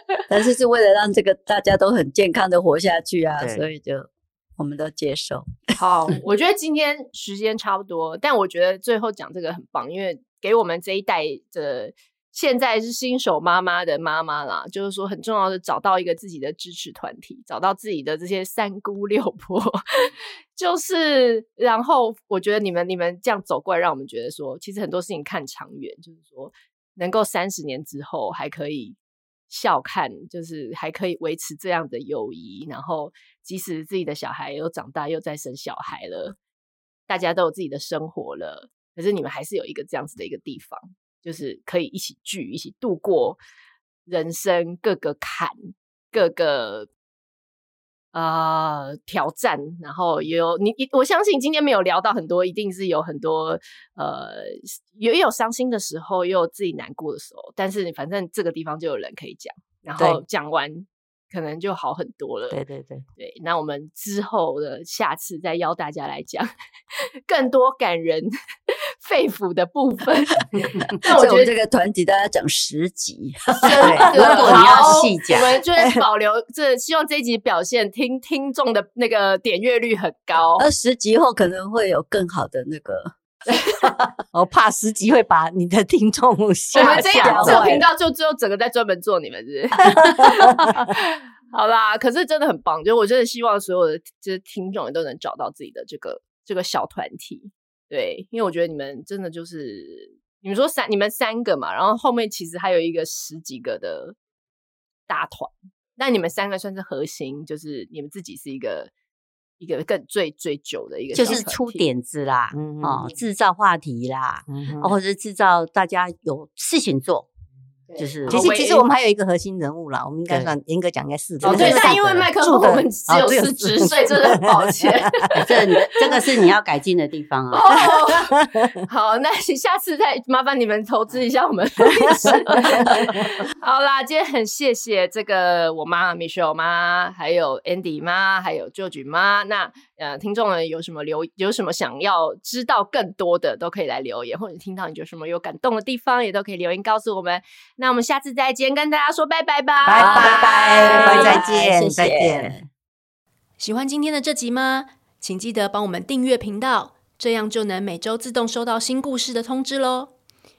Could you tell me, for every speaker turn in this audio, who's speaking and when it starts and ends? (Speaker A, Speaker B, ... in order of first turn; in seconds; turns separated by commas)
Speaker A: 0.3-5.5, Speaker B: 3.4-3.6, Speaker C: 5.8-29.0, Speaker C: 29.5-36.4, Speaker C: 37.1-43.4, Speaker C: 44.1-46.9, Speaker C: 48.1-62.6, Speaker D: 62.5-63.0, Speaker C: 63.2-66.5, Speaker C: 67.0-71.5, Speaker A: 71.0-74.0, Speaker C: 73.6-80.7, Speaker D: 73.8-75.0, Speaker B: 73.9-75.5, Speaker D: 75.8-76.0, Speaker A: 80.6-83.2, Speaker D: 84.3-87.8, Speaker C: 86.7-104.2, Speaker A: 86.8-87.9, Speaker D: 90.0-90.9, Speaker C: 105.1-108.9, Speaker C: 109.6-111.8, Speaker B: 111.1-117.3, Speaker D: 112.5-113.1, Speaker D: 114.5-115.0, Speaker C: 117.9-118.9, Speaker B: 118.0-118.5, Speaker D: 118.3-125.0, Speaker C: 121.4-126.2, Speaker B: 121.5-121.8, Speaker B: 125.3-127.7, Speaker C: 127.5-151.4, Speaker D: 127.9-128.7, Speaker D: 132.1-133.2, Speaker D: 149.8-152.6, Speaker A: 150.0-152.7, Speaker E: 153.6-160.1